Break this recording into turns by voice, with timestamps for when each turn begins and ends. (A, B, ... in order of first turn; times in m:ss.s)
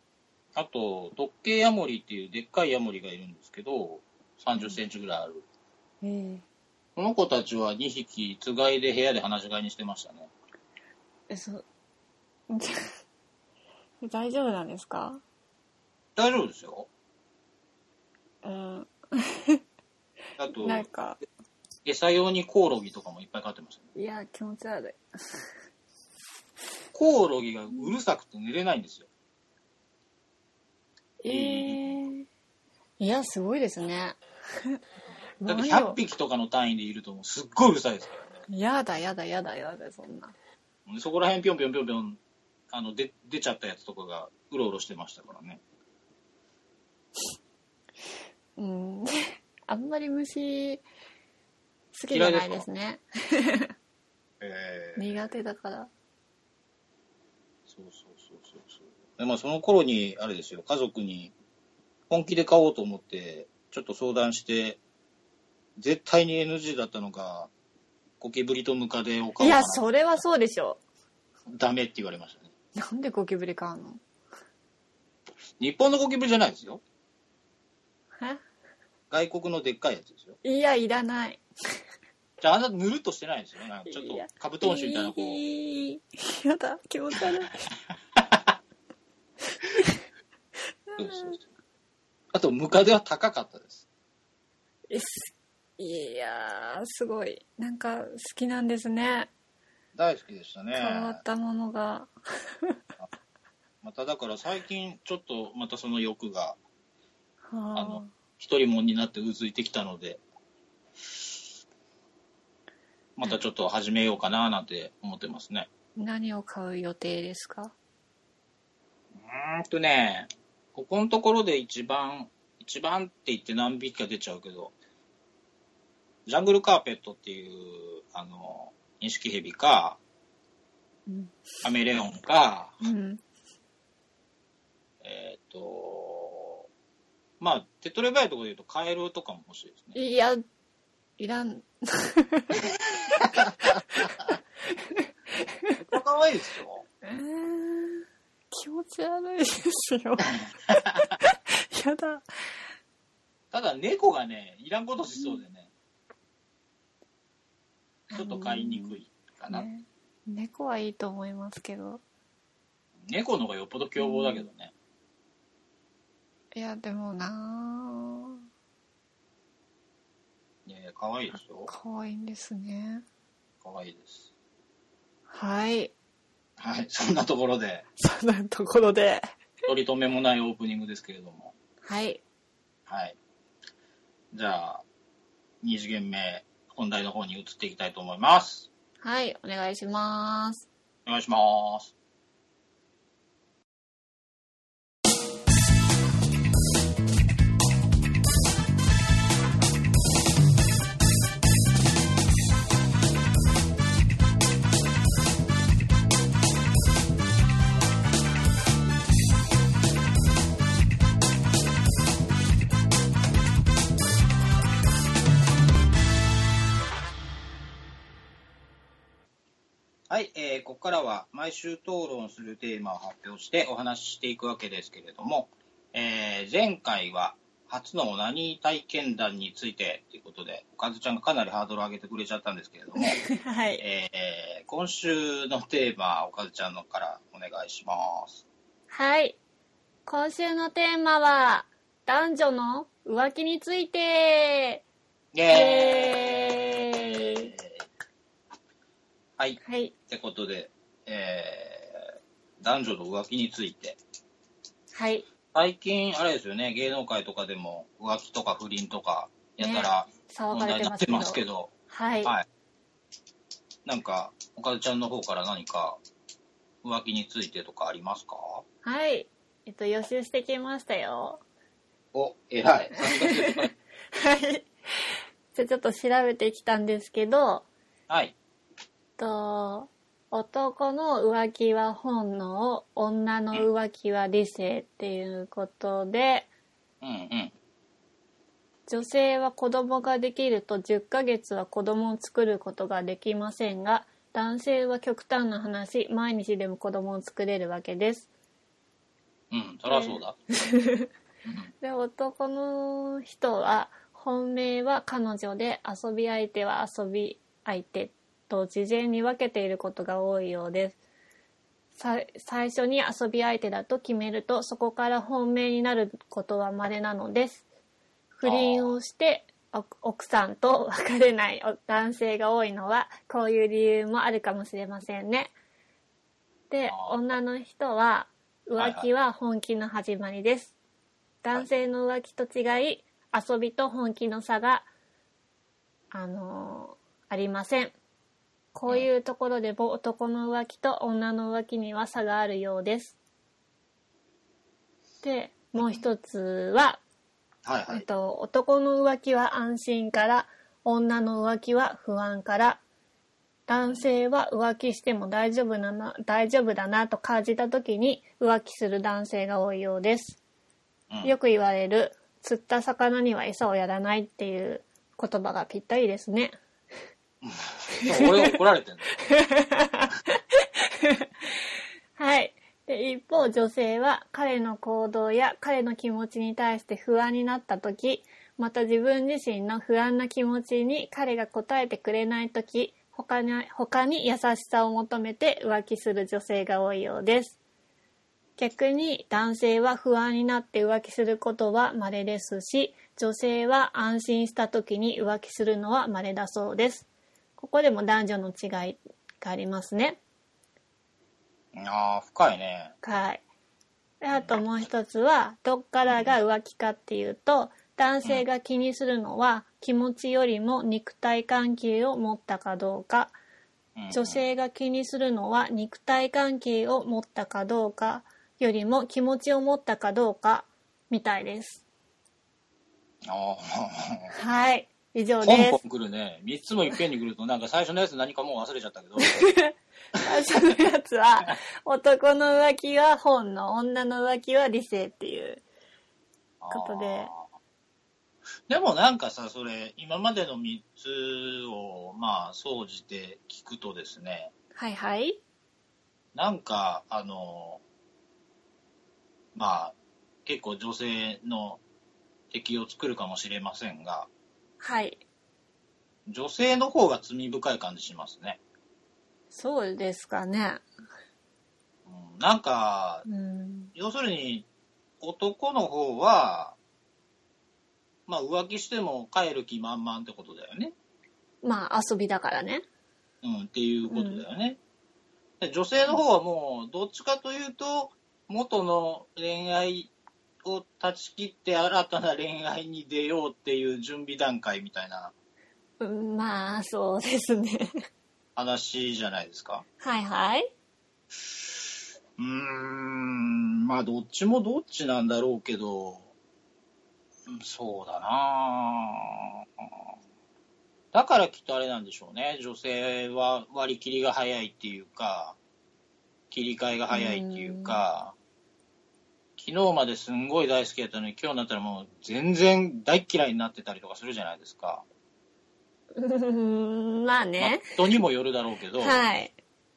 0:00.5-0:05.4 A
0:06.0-0:06.4 B
0:07.0-0:10.3 A
0:11.3-0:11.6 B
0:12.5-0:12.8 B
0:14.0-0:15.2 B
0:16.2-0:16.9 A
0:18.4-0:19.6 B
0:20.4-0:20.9 A
0:20.5-0:21.2 B
0:21.8-0:23.9 A
0:24.0-0:25.0 B
0:26.9-0:29.1 A
0:31.2-0:32.2 B
0:31.3-0:32.0 A
0:33.0-0:34.8 B
0:35.4-0:36.0 B
0:35.5-0:38.4 A
0:38.5-0:40.3 B
0:40.9-0:42.2 A
0:42.7-0:45.6 A
0:48.6-0:50.8 B
0:51.9-0:53.7 B
0:52.1-0:52.7 A
0:54.4-0:55.1 A
0:55.0-0:55.9 B
0:57.7-1:01.3 A
1:02.1-1:04.8 A
1:05.8-1:07.5 A
1:08.2-1:09.8 A
1:09.4-1:10.8 B
1:11.5-1:12.5 A
1:12.8-1:14.0 B
1:15.6-1:16.8 A
1:19.1-1:20.4 A
1:20.4-1:21.4 B
1:22.4-1:25.4 A
1:23.9-1:27.6 B
1:28.2-1:28.5 A
1:29.5-1:30.0 B
1:30.9-1:31.4 B
1:31.0-1:31.4 A
1:32.3-1:33.9 A
1:34.9-1:39.3 B
1:40.0-1:41.2 A
1:40.7-1:42.1 B
1:43.8-1:46.6 A
1:47.4-1:48.1 B
1:47.8-1:50.2 A
1:53.2-1:55.7 A
1:56.0-1:57.7 B
1:59.1-2:04.7 A
2:06.2-2:10.0 A
2:11.1-2:11.5 B
2:11.6-2:12.8 A
2:12.8-2:13.2 B
2:15.0-2:16.6 A
2:17.4-2:20.0 A
2:19.9-2:20.4 B
2:21.2-2:23.2 B
2:23.2-2:24.1 A
2:24.7-2:25.8 B
2:25.8-2:26.8 A
2:27.0-2:32.2 B
2:33.5-2:35.7 A
2:35.2-2:35.4 B
2:38.1-2:39.0 B
2:38.1-2:39.6 A
2:39.5-2:42.0 B
2:43.1-2:44.7 A
2:44.0-2:44.5 B
2:46.5-2:48.4 B
2:50.6-2:51.7 A
2:51.7-2:53.0 B
2:53.6-2:54.3 A
2:55.3-2:55.9 B
2:56.6-2:57.8 A
2:58.0-2:59.2 B
2:59.7-3:01.5 A
3:01.8-3:02.2 B
3:02.9-3:03.2 A
3:04.3-3:04.8 A
3:05.6-3:08.7 A
3:09.0-3:10.7 B
3:11.1-3:11.9 A
3:40.1-3:53.2 A
3:53.0-3:53.8 B
3:53.8-3:58.4 A
3:58.9-3:59.4 B
4:00.1-4:04.8 B
4:05.3-4:07.8 A
4:05.5-4:07.5 B
4:09.4-4:14.0 A
4:09.6-4:09.9 B
4:14.9-4:15.2 B
4:15.5-4:21.7 A
4:19.6-4:22.4 B
4:23.8-4:26.0 A
4:26.8-4:28.6 A
4:28.8-4:31.4 B
4:32.1-4:33.7 A
4:33.0-4:37.6 B
4:38.1-4:38.4 A
4:39.2-4:46.5 B
4:47.0-4:47.5 A
4:48.9-4:58.3 B
4:59.5-5:00.4 A
4:59.9-5:01.1 B
5:01.4-5:01.7 A
5:01.8-5:11.0 B
5:12.0-5:17.6 B
5:18.3-5:25.5 B
5:18.4-5:18.9 A
5:26.7-5:30.7 B
5:26.9-5:27.4 A
5:28.8-5:29.1 A
5:31.4-5:34.9 B
5:36.1-5:38.0 B
5:38.7-5:43.2 B
5:45.2-5:47.0 B
5:47.6-5:48.0 A
5:47.9-5:52.8 B
5:53.7-6:00.4 B
6:01.2-6:06.6 B
6:07.4-6:09.1 A
6:07.9-6:08.5 B
6:09.2-6:11.3 B
6:12.2-6:27.6 B
6:28.6-6:40.2 B
6:41.7-6:43.0 A
6:43.0-6:43.4 B
6:44.2-6:53.3 B
6:44.3-6:44.6 A
6:46.1-6:46.3 A
6:54.0-6:54.4 A
6:54.1-7:01.8 B
7:03.2-7:04.3 A
7:04.3-7:05.8 B
7:05.4-7:09.4 A
7:09.2-7:15.6 B
7:16.6-7:17.4 A
7:16.7-7:17.3 B
7:18.7-7:24.5 A
7:24.7-7:25.4 B
7:26.3-7:27.8 A
7:29.5-7:30.0 A
7:30.5-7:31.8 A
7:32.5-7:34.3 A
7:34.8-7:35.2 B
7:36.3-7:38.6 A
7:39.5-7:40.8 B
7:42.0-7:43.2 A
7:43.2-7:43.9 B
7:43.9-7:44.7 A
7:45.2-7:46.8 A
7:48.3-7:50.9 A
7:51.6-7:52.8 B
7:53.4-7:54.8 A
7:54.1-7:54.4 B
7:55.6-8:00.1 A
8:00.6-8:05.3 A
8:06.0-8:07.9 B
8:08.6-8:09.8 A
8:10.0-8:10.7 B
8:12.4-8:16.3 A
8:17.5-8:19.9 A
8:21.1-8:25.6 A
8:26.5-8:28.3 A
8:27.1-8:28.0 B
8:29.6-8:35.0 A
8:36.2-8:38.2 B
8:37.6-8:39.2 A
8:39.0-8:39.5 B